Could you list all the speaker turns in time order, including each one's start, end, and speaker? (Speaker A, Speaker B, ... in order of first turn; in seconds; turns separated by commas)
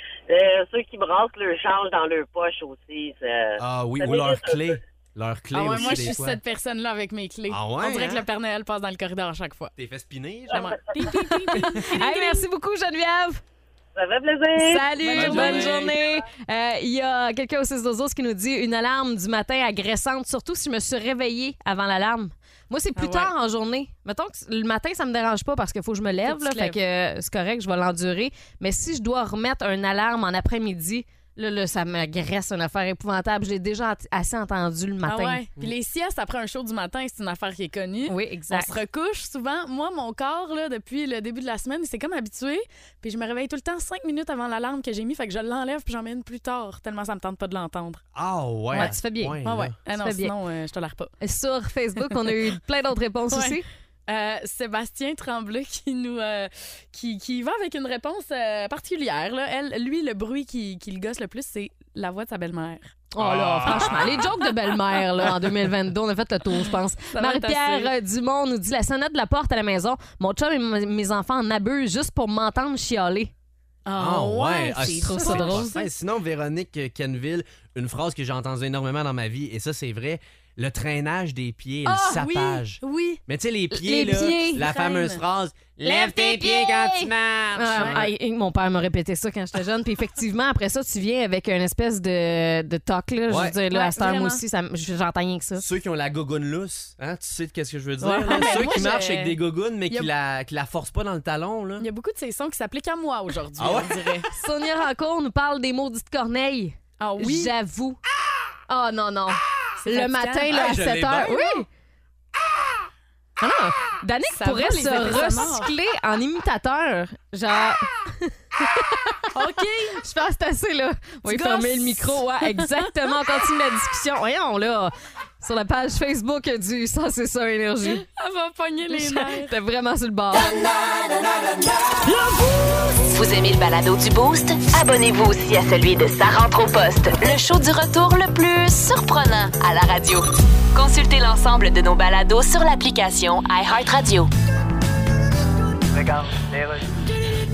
Speaker A: 0.3-4.8, Speaker B: 3.6-6.4, Speaker C: 5.5-9.7, Speaker B: 7.5-8.2, Speaker B: 9.8-10.7, Speaker A: 10.5-11.3, Speaker C: 10.5-12.4, Speaker D: 11.1-13.4, Speaker A: 14.0-15.0, Speaker D: 14.6-35.4, Speaker C: 15.0-16.0, Speaker B: 15.1-15.9, Speaker C: 23.0-23.3, Speaker C: 26.3-26.8, Speaker C: 35.1-48.0, Speaker D: 38.1-38.8, Speaker B: 48.1-49.8, Speaker D: 48.7-49.4, Speaker C: 48.7-51.1, Speaker D: 49.9-50.3, Speaker D: 51.2-53.6, Speaker C: 53.3-62.9, Speaker D: 63.1-73.3, Speaker B: 63.2-64.3, Speaker C: 63.7-64.3, Speaker C: 67.1-67.9, Speaker C: 73.8-75.9, Speaker B: 74.0-88.1, Speaker D: 75.0-75.6, Speaker C: 81.8-83.2, Speaker D: 83.7-84.7, Speaker C: 84.6-85.2, Speaker D: 85.8-95.6, Speaker C: 87.7-88.0, Speaker B: 93.3-93.5, Speaker C: 93.7-94.4, Speaker B: 95.6-101.9, Speaker C: 98.0-100.1, Speaker D: 98.3-98.7, Speaker C: 101.8-104.3, Speaker B: 103.6-104.1, Speaker D: 104.3-108.0, Speaker C: 107.0-107.5, Speaker D: 108.7-111.7, Speaker C: 109.8-110.5, Speaker B: 110.5-111.6, Speaker D: 113.4-119.3, Speaker C: 114.3-115.7, Speaker C: 119.3-120.0, Speaker D: 120.0-128.0, Speaker C: 121.2-123.2, Speaker C: 127.8-129.5, Speaker D: 128.9-130.5, Speaker E: 133.1-144.3